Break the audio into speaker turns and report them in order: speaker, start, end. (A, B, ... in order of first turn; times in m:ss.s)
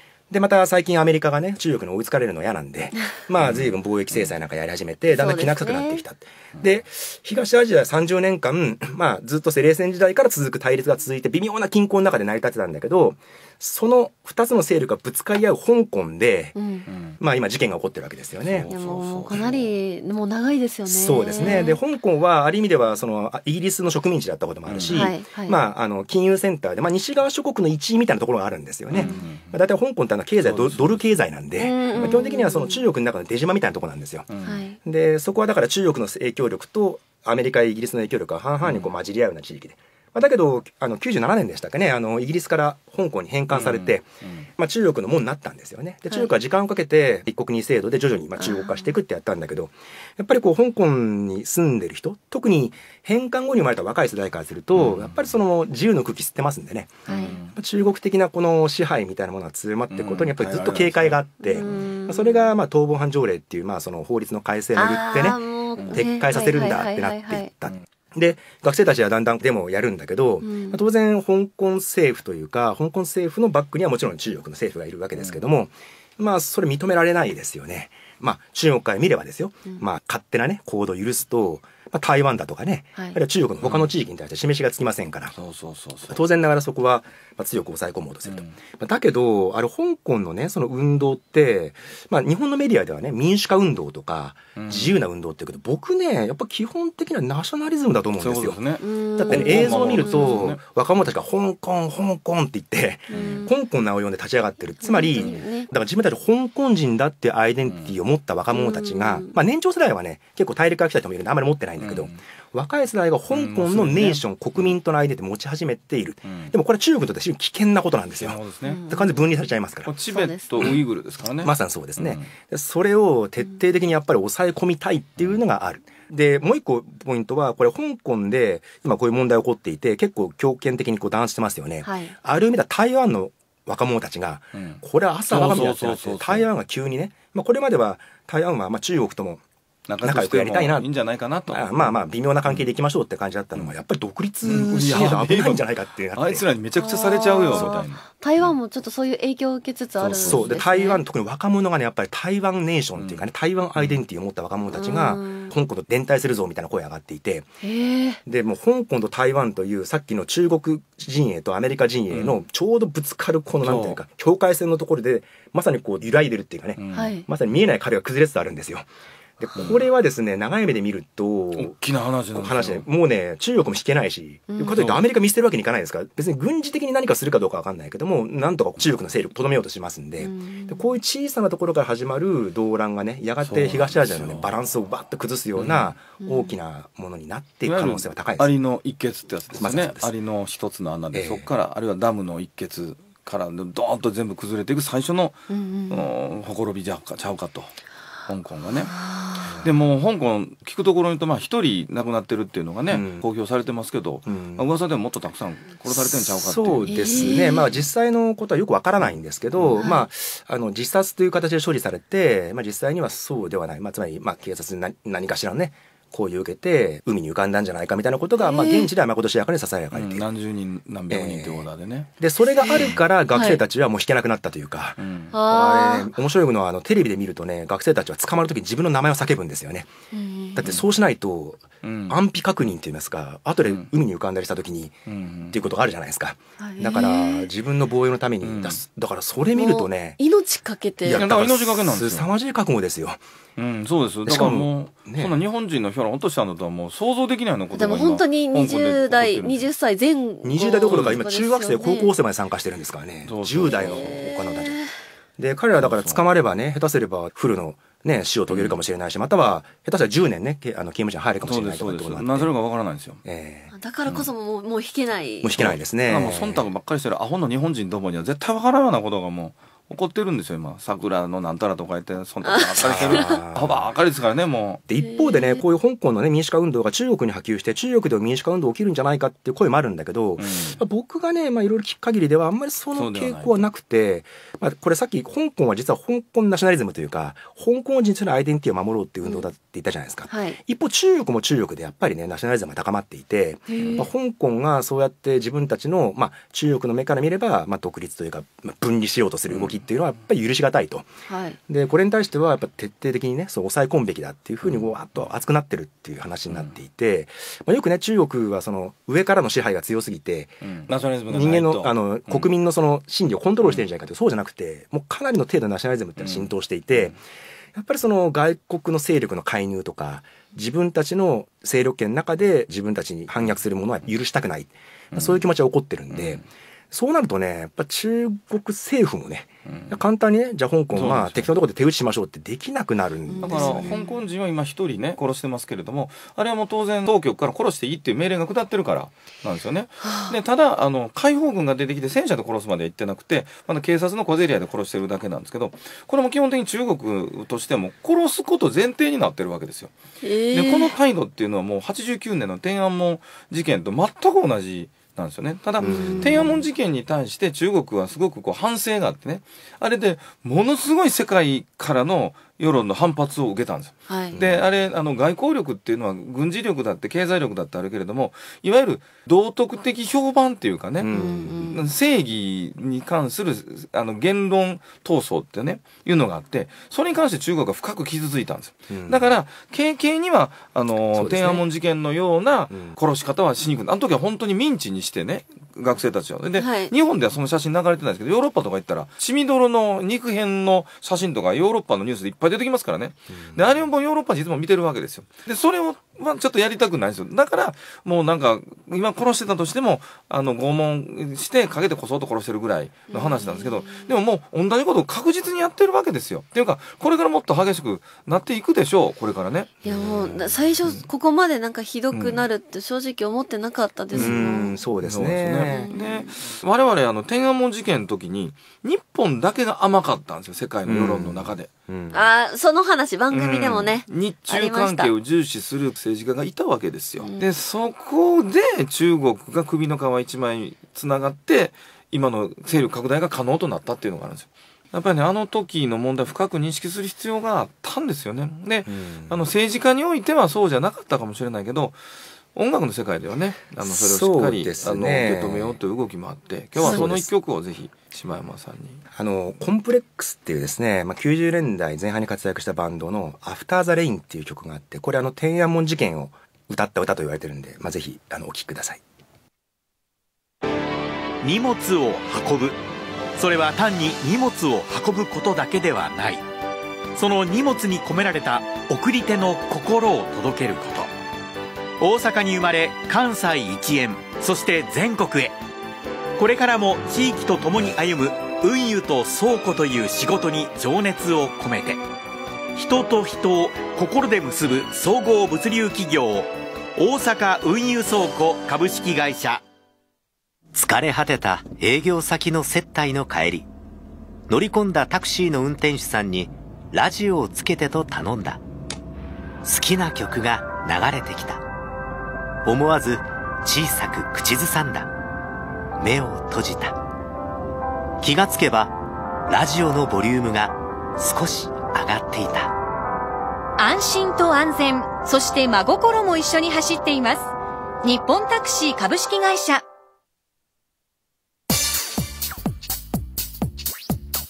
0:00.3-0:18.7 A
0:03.4-0:03.7 B
0:05.1-0:06.0 C
0:16.6-0:16.9 C
0:16.9-0:17.2 B
0:18.4-0:19.7 B
0:18.7-0:21.8 C
0:20.9-0:34.3 A
0:21.4-0:21.7 B
0:24.7-0:25.1 B
0:24.9-0:25.6 C
0:28.9-0:29.6 B
0:30.4-0:31.2 B
0:31.6-0:32.8 C
0:31.9-0:32.2 B
0:34.3-0:34.6 B
0:34.4-0:34.8 C
0:34.8-0:44.1 A
0:38.6-0:38.9 B
0:43.5-0:44.5 B
0:44.6-1:25.3 A
0:48.4-0:48.9 C
0:54.8-0:55.2 B
0:57.1-0:57.4 C
0:57.1-0:57.5 B
0:59.9-1:01.8 B
1:01.4-1:02.4 C
1:04.8-1:07.5 C
1:05.8-1:06.0 B
1:10.4-1:10.8 C
1:23.6-1:23.9 B
1:25.3-1:26.2 B
1:26.1-1:38.6 A
1:28.3-1:28.6 B
1:34.6-1:35.0 B
1:38.2-1:40.6 B
1:38.8-1:40.4 C
1:39.2-1:59.9 A
1:43.1-1:43.4 B
1:43.1-1:43.5 C
1:44.8-1:45.7 C
1:45.2-1:45.4 B
1:47.7-1:47.9 B
1:48.5-1:49.3 C
1:51.8-1:52.2 B
1:53.3-1:54.7 B
1:56.2-1:56.5 B
1:58.2-1:58.8 B
1:58.6-1:59.1 C
1:59.9-2:02.3 B
2:00.1-2:00.8 C
2:01.4-2:19.4 A
2:11.8-2:12.1 C
2:14.5-2:16.5 B
2:19.9-2:22.7 B
2:20.0-2:20.9 A
2:21.5-2:26.5 A
2:24.4-2:28.5 B
2:26.8-2:31.0 C
2:27.5-2:27.8 A
2:30.0-2:30.5 B
2:30.2-2:37.5 A
2:33.0-2:34.0 B
2:34.7-2:35.5 C
2:37.6-2:38.2 C
2:38.3-2:48.9 A
2:42.1-2:42.4 B
2:43.6-2:44.0 B
2:46.8-2:47.1 B
2:46.9-2:47.3 C
2:49.4-2:51.8 A
2:49.6-2:49.8 B
2:51.6-2:52.8 B
2:52.3-3:08.6 A
2:54.5-2:54.8 C
2:54.8-2:55.0 B
3:00.2-3:00.8 C
3:03.4-3:04.5 B
3:05.6-3:05.9 B
3:06.2-3:06.6 C
3:07.6-3:17.7 B
3:09.6-3:10.1 A
3:11.1-3:11.5 A
3:15.5-3:16.1 C
3:18.3-3:18.9 B
3:18.9-3:19.5 C
3:19.4-3:19.7 A
3:19.6-3:27.3 B
3:22.9-3:23.2 A
3:24.3-3:24.7 A
3:25.9-3:40.3 A
3:26.9-3:27.7 C
3:29.6-3:29.8 B
3:29.8-3:30.0 C
3:38.4-3:38.9 C
3:39.9-3:42.1 B
3:41.1-3:49.9 A
3:42.6-3:43.6 C
3:45.0-3:45.4 B
3:45.3-3:46.1 C
3:50.1-3:50.6 C
3:50.6-4:00.2 A
3:51.8-3:52.2 B
3:55.1-3:55.6 B
3:56.6-3:57.5 C
3:58.4-3:58.8 B
3:59.6-4:01.2 C
4:01.0-4:03.2 A
4:01.1-4:02.3 B
4:03.6-4:09.7 B
4:04.3-4:05.4 A
4:07.7-4:12.1 C
4:10.4-4:14.8 A
4:10.9-4:11.2 B
4:13.2-4:14.2 B
4:13.6-4:14.9 C
4:15.4-4:22.5 A
4:15.8-4:16.2 B
4:18.5-4:18.8 B
4:21.4-4:23.2 B
4:23.2-4:23.7 A
4:23.7-4:25.6 C
4:25.4-4:26.7 A
4:25.6-4:34.8 B
4:32.5-4:33.4 C
4:32.8-4:33.9 A
4:34.9-5:01.1 A
4:35.0-4:35.6 C
4:40.4-4:40.8 B
4:43.0-4:43.5 B
4:50.3-4:50.6 C
4:53.7-4:54.1 C
4:59.5-4:59.8 B
5:01.3-5:01.6 C
5:01.7-5:10.6 A
5:10.6-5:12.5 B
5:11.3-5:17.2 A
5:16.2-5:16.5 B
5:17.7-5:34.0 A
5:25.1-5:25.4 B
5:26.1-5:26.4 B
5:30.9-5:31.5 B
5:33.3-5:34.2 C
5:33.4-5:49.9 B
5:40.0-5:40.4 C
5:50.2-5:50.9 C
5:50.5-6:49.8 B
5:55.8-5:56.5 A
5:55.8-5:56.6 C
6:04.1-6:04.4 C
6:04.3-6:04.7 A
6:11.0-6:11.6 A
6:11.1-6:11.8 C
6:18.9-6:19.3 A
6:21.1-6:21.6 A
6:22.7-6:23.0 A
6:26.6-6:26.9 C
6:33.3-6:33.8 A
6:43.1-6:44.1 C
6:49.8-6:50.4 A
6:49.8-6:54.8 C
6:52.1-6:52.4 B
6:54.1-6:54.4 B
6:54.1-6:55.9 A
6:55.0-7:01.7 B
6:55.7-6:56.3 C
7:00.8-7:02.2 A
7:02.1-7:05.1 C
7:03.3-7:22.0 B
7:07.2-7:07.5 C
7:18.9-7:19.5 A
7:22.6-7:29.0 B
7:23.8-7:25.8 A
7:26.8-7:27.3 A
7:29.1-7:39.0 A
7:41.4-7:42.8 D
7:43.4-7:46.4 D
7:47.2-7:51.1 D
7:52.0-7:55.6 D
7:56.4-8:02.0 D
8:02.8-8:09.6 D
8:10.7-8:13.7 E
8:14.5-8:18.6 E
8:19.6-8:21.6 E
8:22.6-8:25.1 E
8:26.0-8:27.0 E
8:28.2-8:29.0 E
8:29.5-8:32.7 E
8:33.8-8:37.5 F
8:38.0-8:39.8 F